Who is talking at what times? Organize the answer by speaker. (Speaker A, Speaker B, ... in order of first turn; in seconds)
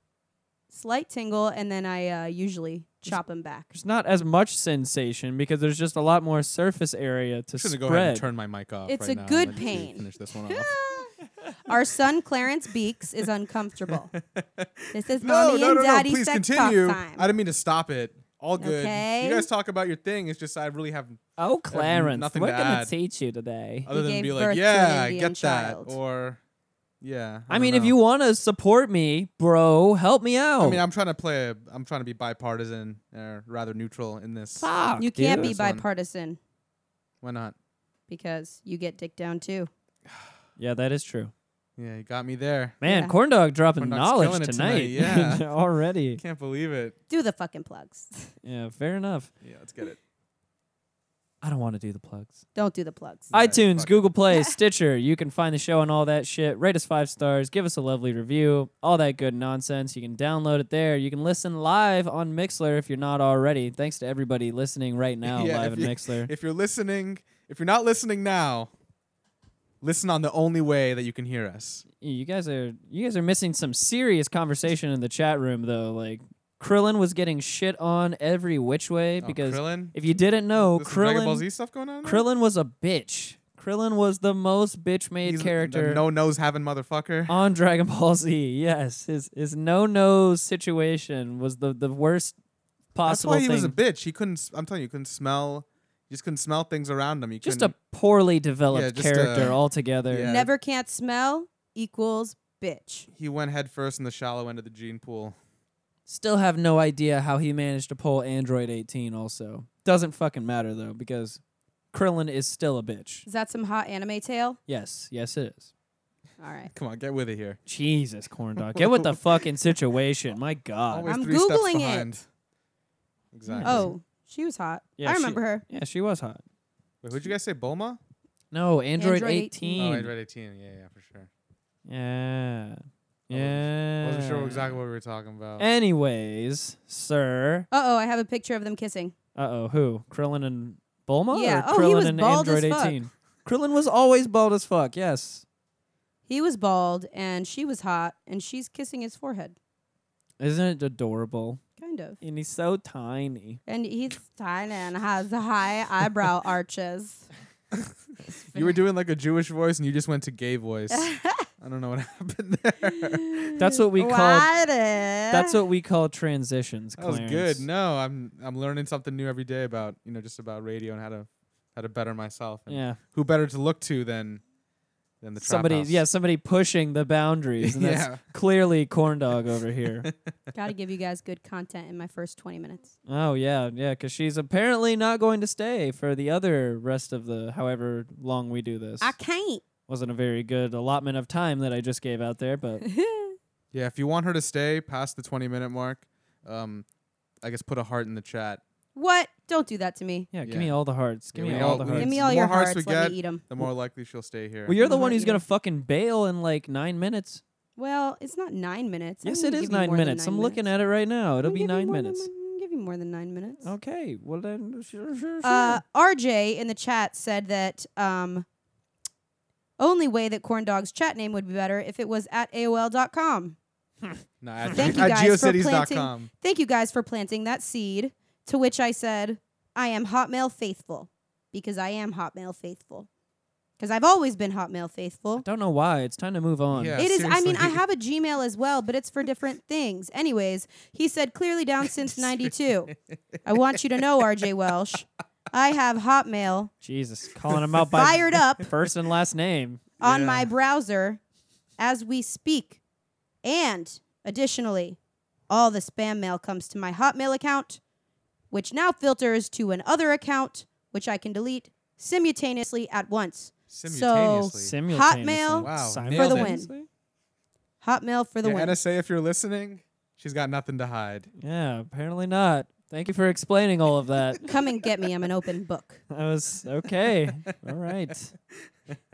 Speaker A: 0.7-3.7, 8.9-11.1, 11.6-14.1, 14.9-17.3, 18.6-19.5, 23.9-25.9, 35.0-36.4, 38.1-39.7, 42.9-43.1, 47.1-48.3, 52.5-53.3, 100.2-103.1, 113.3-114.6, 116.4-116.7, 121.0-122.1, 123.6-125.6, 129.0-129.8, 137.7-139.1, 141.3-143.0, 146.3-149.6, 151.8-152.2, 153.7-157.3, 158.3-158.8, 160.9-161.5, 163.1-165.6, 180.5-182.9, 189.0-189.6, 192.8-193.3, 198.9-200.3, 201.6-203.4, 204.8-205.4, 207.8-210.6, 211.4-213.7, 215.4-218.4, 219.8-223.6, 224.7-233.1, 233.8-235.4, 237.0-246.7, 247.9-248.7, 250.0-251.2, 251.8-252.8, 253.4-255.0, 255.5-257.8, 258.5-266.7, 267.8-268.8, 274.4-276.0
Speaker B: 3.7-8.2, 21.4-23.9, 27.5-30.8, 34.6-35.5, 40.6-41.3, 42.8-46.2, 48.4-49.3, 51.4-52.4, 53.3-66.3, 72.0-81.4, 82.0-86.0, 87.3-92.3, 92.9-93.7, 97.4-100.4, 106.1-111.4, 111.9-113.2, 114.7-115.7, 117.7-121.1, 123.5-123.9, 125.0-126.4, 128.5-130.1, 131.8-134.8, 135.6-137.7, 139.3-145.4, 150.4-151.6, 152.2-153.6, 163.6-164.5, 165.3-167.6, 172.7-173.0, 175.4-180.1, 183.1-189.1, 189.9-192.8, 200.3-202.3, 204.7-207.4, 209.2-212.3, 213.6-215.8, 235.4-237.0, 246.8-249.8, 264.6-266.9, 271.4-274.5, 276.1-278.3
Speaker C: 7.5-10.7, 13.9-21.2, 21.7-22.9, 23.9-26.4, 27.0-27.9, 30.6-34.7, 35.3-35.8, 37.2-37.5, 40.1-40.3, 41.8-42.8, 43.8-45.5, 46.2-47.0, 49.4-50.0, 53.3-54.1, 65.2-68.7, 69.8-71.8, 79.2-79.9, 80.5-82.2, 85.2-87.3, 93.0-97.7, 98.7-100.5, 103.1-105.3, 116.7-117.6, 118.7-119.4, 120.9-122.2, 123.3-123.9, 127.0-128.0, 129.8-131.3, 133.3-135.7, 158.5-163.6, 167.0-174.4, 175.2-176.0, 177.6-178.2, 180.0-180.3, 193.7-196.8, 197.4-198.6, 200.4-200.7, 201.3-204.8, 224.4-226.3, 236.7-237.8, 242.1-242.5, 250.0-250.5, 263.7-264.7, 265.6-266.5, 268.4-271.3